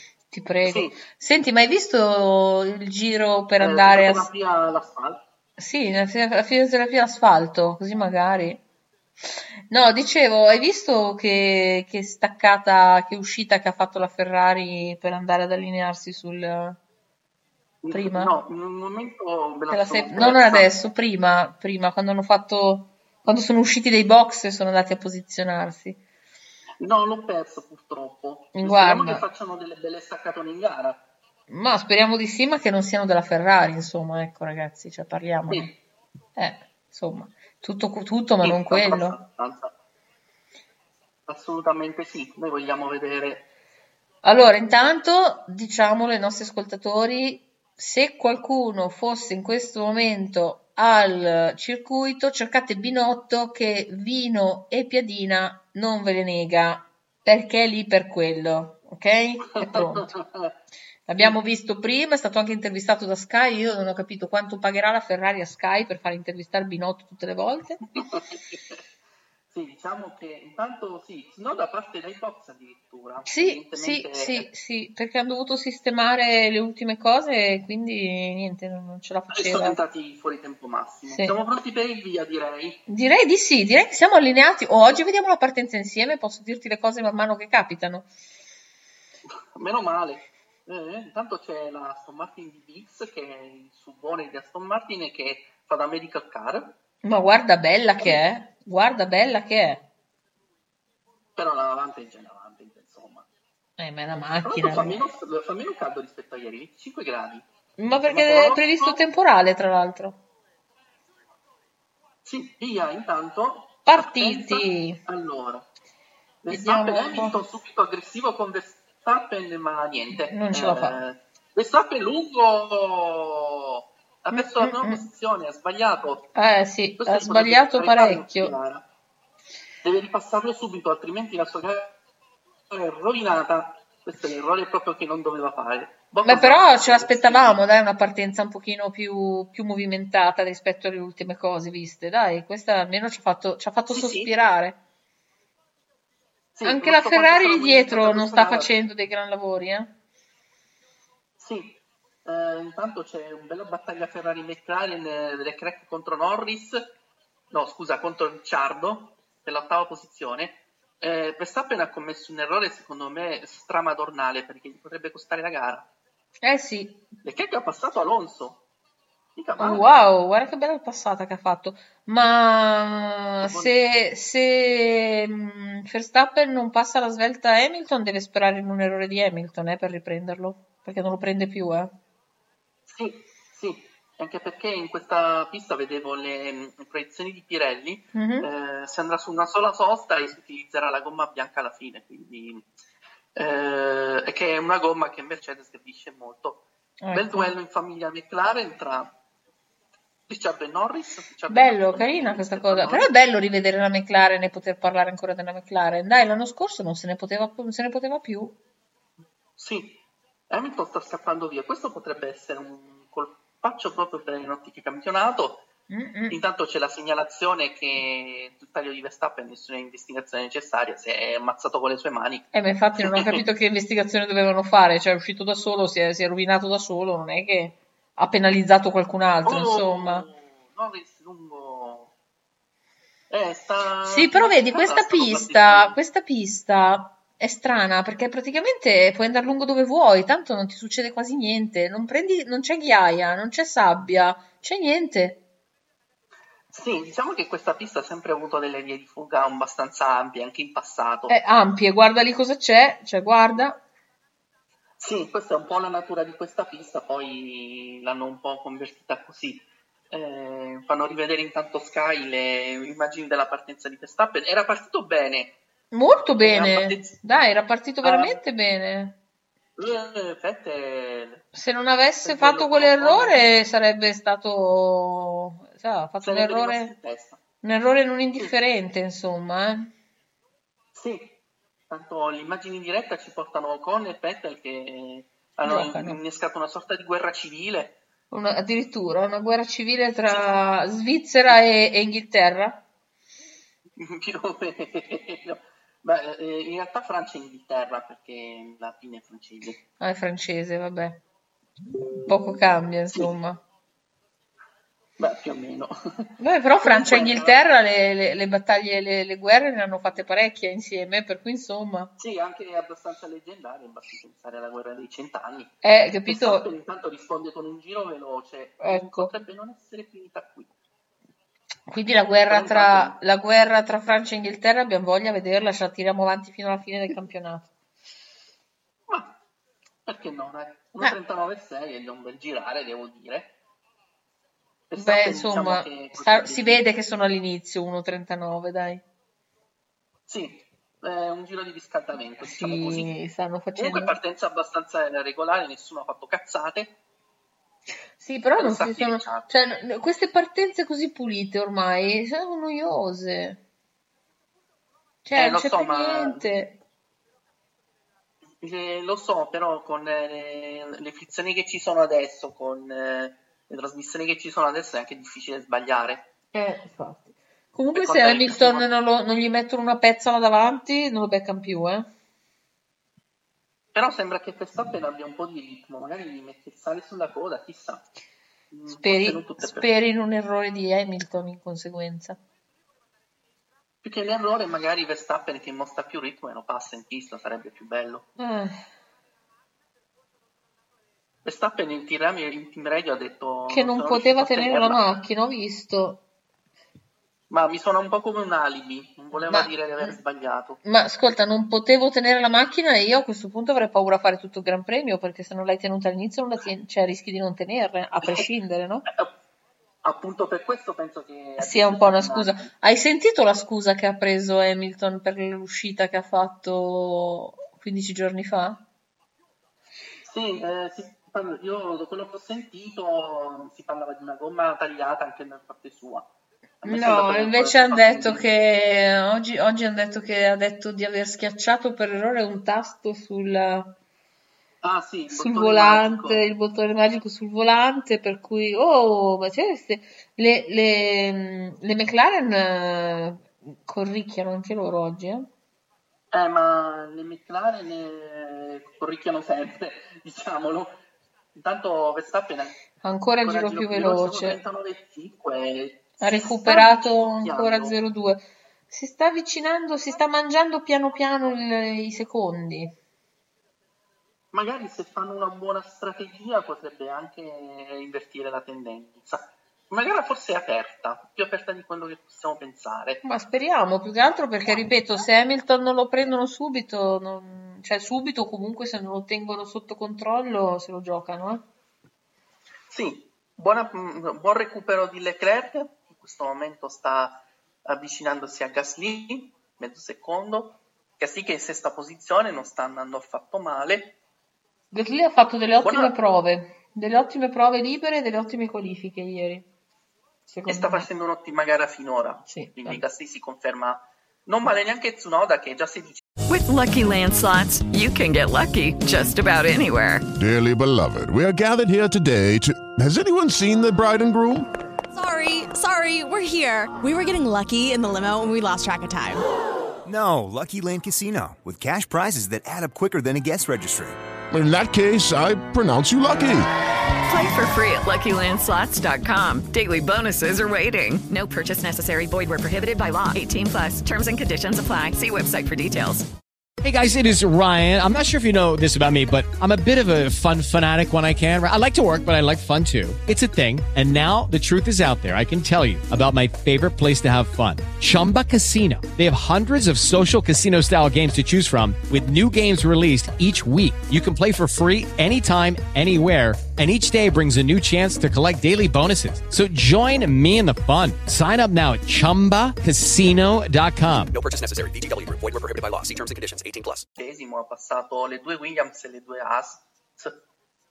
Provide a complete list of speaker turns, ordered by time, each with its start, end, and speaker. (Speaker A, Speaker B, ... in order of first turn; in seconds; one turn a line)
Speaker A: 0.3-4.3
Speaker B: 0.6-1.0
Speaker B: 3.6-5.2
Speaker A: 5.6-8.6
Speaker A: 9.7-16.8
Speaker B: 17.8-20.7
Speaker A: 17.9-18.4
Speaker A: 19.7-26.0
Speaker B: 26.8-31.0
Speaker A: 28.6-29.2
Speaker A: 31.5-35.7
Speaker A: 36.4-39.2
Speaker B: 38.4-39.7
Speaker B: 41.3-43.5
Speaker A: 44.2-60.1
Speaker B: 59.5-60.6
Speaker A: 61.1-67.8
Speaker B: 68.0-68.8
Speaker B: 69.5-74.5
Speaker A: 73.3-79.8
Speaker B: 79.3-82.8
Speaker A: 81.1-81.3
Speaker A: 82.9-88.1
Speaker B: 89.3-96.8
Speaker A: 97.0-99.8
Speaker B: 101.4-103.3
Speaker A: 103.8-105.1
Speaker B: 104.4-107.5
Speaker A: 107.8-110.2
Speaker B: 108.0-109.0
Speaker B: 112.2-115.7
Speaker A: 113.9-115.0
Speaker B: 116.4-126.3
Speaker A: 116.5-117.5
Speaker A: 120.1-121.0
Speaker A: 124.3-125.1
Speaker A: 126.3-128.6
Speaker B: 127.0-128.9
Speaker B: 129.8-132.0
Speaker B: 132.7-137.6
Speaker A: 136.2-144.8
Speaker B: 143.9-144.3
Speaker B: 146.6-148.8
Speaker A: 146.6-149.9
Speaker B: 151.4-156.9
Speaker B: 157.5-165.9
Speaker A: 166.4-167.0
Speaker B: 167.2-168.6
Speaker B: 169.3-170.1
Speaker A: 169.6-181.9
Speaker B: 173.4-173.7
Speaker B: 182.9-192.7
Speaker A: 188.1-188.5
Speaker B: 193.4-199.1
Speaker A: 197.0-197.5
Speaker B: 200.3-203.1
Speaker A: 201.5-208.6
Speaker B: 209.6-215.7
Speaker A: 215.9-216.4
Speaker B: 216.3-223.4
Speaker A: 222.5-230.3
Speaker B: 229.4-232.1
Speaker B: 233.3-235.9
Speaker A: 234.1-245.4
Speaker B: 246.7-251.4
Speaker A: 251.3-253.8
Speaker B: 255.0-265.6
Speaker A: 265.9-269.2
Speaker B: 266.4-267.1
Speaker B: 268.0-268.4
Speaker B: 269.8-271.5
Speaker A: 271.5-276.9
Speaker B: 272.2-273.5
Speaker B: 276.2-277.4
Speaker A: 277.6-279.9
Speaker B: 280.9-288.0
Speaker A: 285.6-286.2
Speaker A: 288.3-292.8
Speaker B: 294.0-299.8
Speaker A: 300.0-301.2
Speaker A: 302.3-303.6
Speaker B: 305.2-307.6
Speaker A: 306.4-312.1
Speaker B: 312.2-320.7
Speaker A: 315.8-316.7
Speaker A: 318.8-319.3
Speaker A: 321.9-327.7
Speaker B: 322.5-323.2
Speaker B: 329.1-329.4
Speaker B: 330.1-333.6
Speaker B: 334.9-336.8
Speaker A: 335.0-339.0
Speaker B: 340.3-343.1
Speaker A: 342.4-344.2
Speaker B: 343.8-346.9
Speaker A: 348.2-353.6
Speaker B: 348.6-349.5
Speaker A: 355.2-356.8
Speaker B: 355.4-356.4
Speaker B: 358.6-366.3
Speaker A: 366.5-372.1
Speaker B: 367.9-368.9
Speaker B: 373.9-378.1
Speaker B: 378.7-379.9
Speaker A: 378.9-382.4
Speaker B: 384.0-388.3
Speaker A: 388.4-388.8
Speaker B: 391.4-395.0
Speaker A: 393.7-396.2
Speaker B: 397.5-400.8
Speaker A: 399.3-400.2
Speaker A: 400.8-409.1
Speaker B: 409.1-409.3
Speaker B: 410.0-412.7
Speaker A: 411.6-418.8
Speaker B: 420.2-426.3
Speaker B: 426.8-428.4
Speaker A: 426.9-433.9
Speaker B: 434.8-436.5
Speaker A: 435.3-445.5
Speaker B: 446.3-451.0
Speaker B: 451.6-452.8
Speaker A: 453.0-454.6
Speaker B: 453.4-458.0
Speaker A: 456.2-462.9
Speaker B: 464.5-473.2
Speaker A: 473.2-481.7
Speaker B: 482.9-494.2
Speaker A: 494.9-499.7
Speaker B: 495.8-496.1
Speaker A: 500.5-501.1
Speaker B: 500.7-506.2
Speaker A: 502.5-503.0
Speaker C: 506.5-510.3
Speaker D: 510.4-514.7
Speaker E: 515.1-519.4
Speaker F: 520.0-524.2
Speaker D: 524.5-526.7
Speaker C: 527.3-536.3
Speaker G: 536.8-564.3
Speaker H: 564.3-567.1
Speaker B: 567.2-570.4